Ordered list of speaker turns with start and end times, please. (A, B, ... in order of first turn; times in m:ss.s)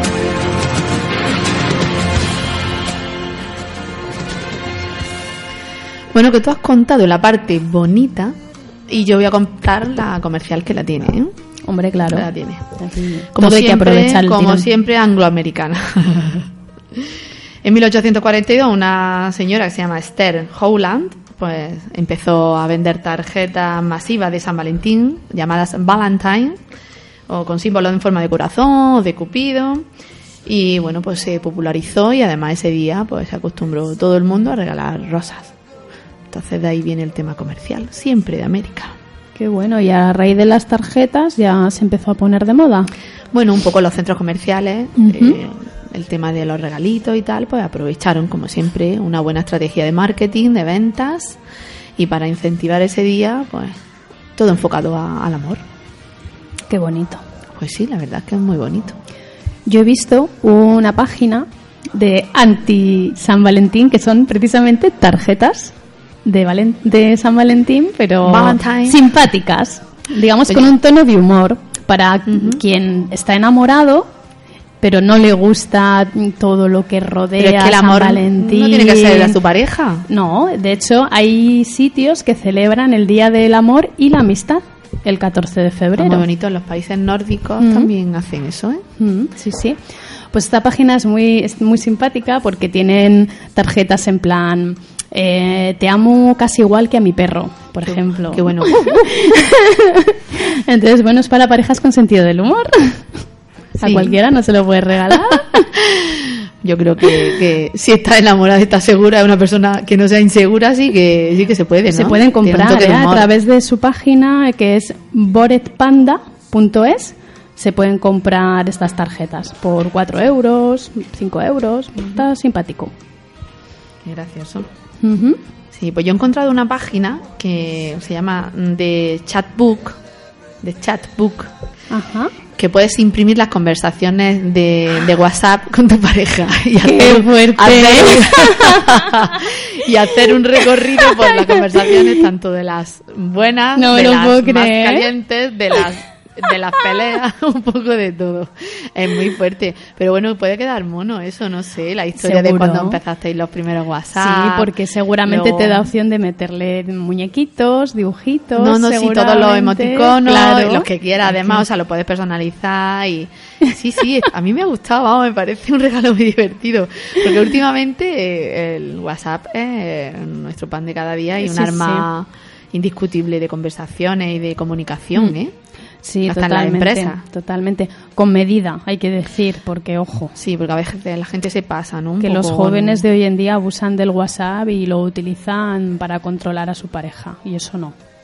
0:06.1-0:08.4 A
0:08.9-0:11.3 A
0:11.7-0:14.6 B
0:12.1-0:12.7 A
0:13.3-0:17.1 A
0:17.6-0:26.6 A
0:27.3-0:29.8 A
0:30.4-0:35.5 A
0:36.3-0:39.0 A
0:39.4-0:42.9 B
0:43.3-0:51.4 A
0:45.0-0:45.4 B
0:52.0-0:53.8 A
0:54.4-0:55.6 A
0:56.7-0:57.2 B
0:57.6-0:59.0 A
0:59.6-1:14.1 B
1:08.2-1:09.0 A
1:10.5-1:10.8 A
1:12.3-1:12.6 A
1:14.8-1:19.4 B
1:17.4-1:20.0 A
1:20.1-1:26.2 B
1:26.0-1:28.8 A
1:27.6-1:27.9 B
1:29.0-1:43.1 B
1:37.8-1:39.1 A
1:43.8-1:44.2 A
1:43.8-1:45.6 B
1:45.7-1:53.3 A
1:51.9-2:02.9 B
2:02.0-2:02.2 A
2:04.0-2:04.7 A
2:05.0-2:05.4 B
2:05.7-2:10.0 A
2:10.6-2:11.5 A
2:11.9-2:12.3 B
2:12.6-2:34.7 A
2:16.8-2:19.4 B
2:21.0-2:21.9 B
2:23.8-2:25.1 B
2:32.2-2:33.0 B
2:34.2-2:41.6 B
2:35.2-2:35.9 A
2:38.6-2:55.5 A
2:51.4-2:52.0 B
2:56.0-3:00.3 B
2:56.2-2:57.2 A
3:00.4-3:03.0 A
3:02.2-3:07.9 B